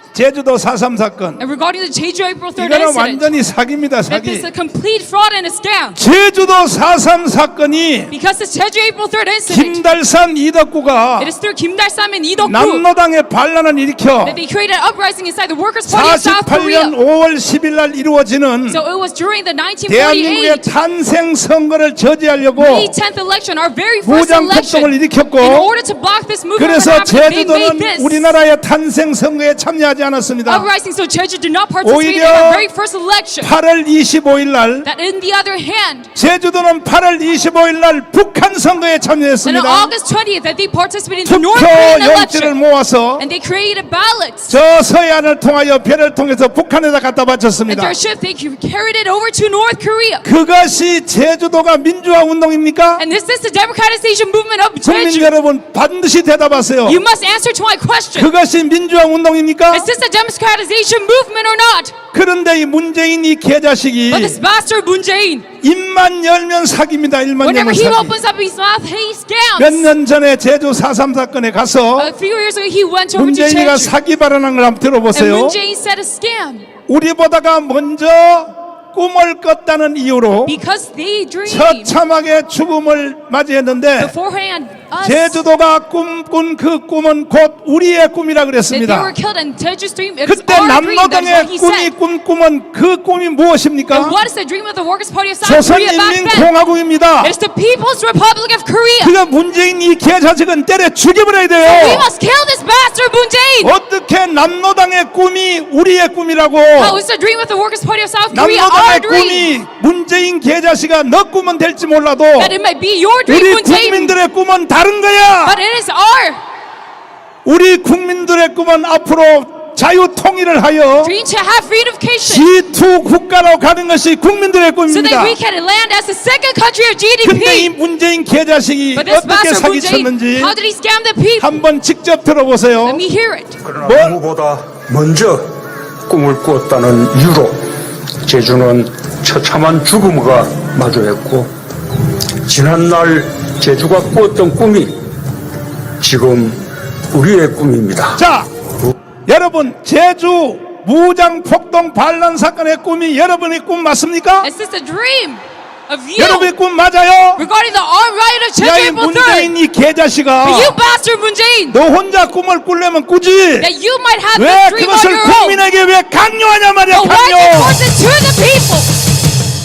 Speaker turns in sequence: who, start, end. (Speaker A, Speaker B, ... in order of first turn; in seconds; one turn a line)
Speaker A: 0.1-1.4
Speaker B: 1.4-3.3
Speaker A: 2.6-4.5
Speaker B: 4.1-6.0
Speaker A: 6.0-8.1
Speaker B: 8.1-9.8
Speaker A: 9.5-11.3
Speaker B: 11.2-12.8
Speaker A: 12.4-14.4
Speaker B: 14.2-16.9
Speaker A: 15.9-18.8
Speaker B: 18.7-20.7
Speaker A: 19.9-22.9
Speaker B: 22.6-28.4
Speaker A: 24.0-25.7
Speaker A: 26.6-30.7
Speaker B: 30.5-33.5
Speaker A: 31.8-32.6
Speaker A: 33.4-34.9
Speaker B: 34.8-36.1
Speaker A: 36.1-39.9
Speaker B: 39.5-42.5
Speaker A: 41.2-43.2
Speaker B: 43.2-44.6
Speaker A: 44.5-48.0
Speaker B: 47.7-50.2
Speaker A: 50.2-53.0
Speaker B: 53.0-55.3
Speaker A: 54.8-57.0
Speaker B: 56.9-58.3
Speaker A: 58.2-59.9
Speaker B: 59.7-62.0
Speaker A: 62.1-64.4
Speaker B: 64.1-65.5
Speaker A: 65.6-68.1
Speaker B: 67.4-69.9
Speaker A: 69.6-72.1
Speaker B: 72.0-73.9
Speaker A: 73.2-75.6
Speaker B: 75.1-76.7
Speaker A: 76.9-80.6
Speaker B: 80.5-82.0
Speaker A: 81.5-84.1
Speaker B: 84.0-85.4
Speaker A: 85.0-89.1
Speaker B: 88.7-91.9
Speaker A: 90.3-94.2
Speaker B: 93.9-96.5
Speaker A: 95.4-97.3
Speaker B: 97.2-99.2
Speaker A: 99.0-102.1
Speaker B: 101.6-103.7
Speaker A: 103.6-107.0
Speaker B: 106.8-109.5
Speaker A: 108.3-112.5
Speaker B: 112.4-114.2
Speaker A: 113.3-115.6
Speaker B: 115.4-116.4
Speaker A: 117.5-121.1
Speaker B: 121.0-122.5
Speaker A: 122.2-125.4
Speaker B: 124.9-127.7
Speaker A: 127.2-130.5
Speaker B: 128.9-131.5
Speaker A: 131.4-133.0
Speaker B: 132.8-133.6
Speaker C: 133.6-137.7
Speaker A: 133.8-134.2
Speaker C: 138.2-141.5
Speaker C: 142.4-145.0
Speaker C: 146.0-148.2
Speaker A: 148.2-148.5
Speaker A: 149.3-154.5
Speaker B: 154.4-156.5
Speaker A: 156.2-157.4
Speaker B: 157.4-159.5
Speaker A: 158.6-160.8
Speaker B: 160.4-161.8
Speaker A: 161.7-163.7
Speaker B: 163.6-165.6
Speaker A: 164.3-167.8
Speaker B: 166.9-168.9